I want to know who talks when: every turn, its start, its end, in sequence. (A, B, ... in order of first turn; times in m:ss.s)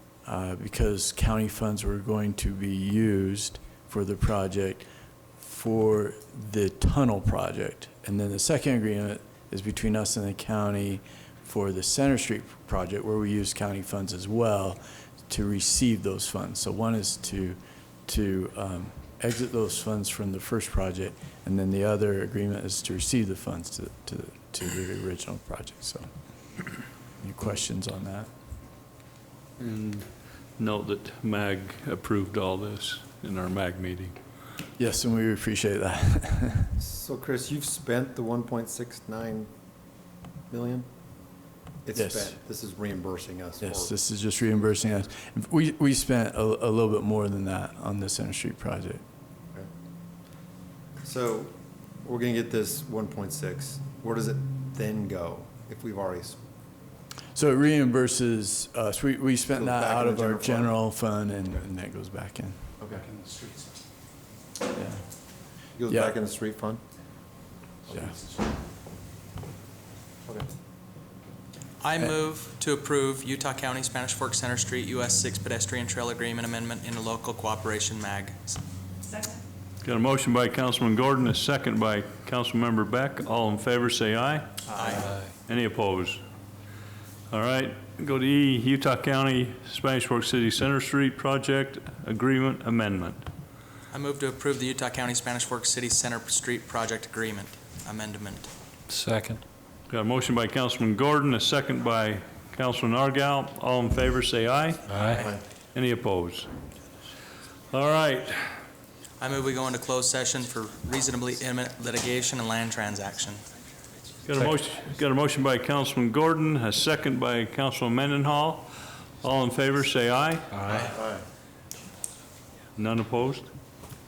0:00.2-0:04.9 A
0:05.4-0:26.1 A
0:27.2-0:28.3 A
0:29.6-0:34.2 B
0:34.8-0:36.7 A
0:36.8-0:39.5 C
0:40.5-0:40.9 C
0:41.8-0:43.9 C
0:42.0-0:42.3 A
0:43.6-0:49.0 A
0:51.0-0:56.4 C
0:57.3-1:02.6 A
0:59.6-1:00.7 C
1:02.8-1:03.1 C
1:03.1-1:03.6 D
1:04.7-1:05.0 A
1:05.8-1:06.8 C
1:07.9-1:08.3 C
1:10.2-1:10.5 C
1:11.8-1:18.6 E
1:19.8-1:24.5 B
1:24.7-1:25.2 E
1:25.2-1:26.2 B
1:27.3-1:33.2 B
1:33.9-1:38.5 E
1:38.9-1:39.4 D
1:39.9-1:45.0 B
1:44.9-1:45.2 D
1:44.9-1:45.3 E
1:45.1-1:45.4 C
1:45.7-1:46.5 B
1:47.7-1:48.5 B
1:49.2-1:53.4 E
1:54.2-2:00.7 B
2:00.5-2:00.9 D
2:00.6-2:00.9 E
2:00.8-2:01.2 C
2:02.8-2:03.5 B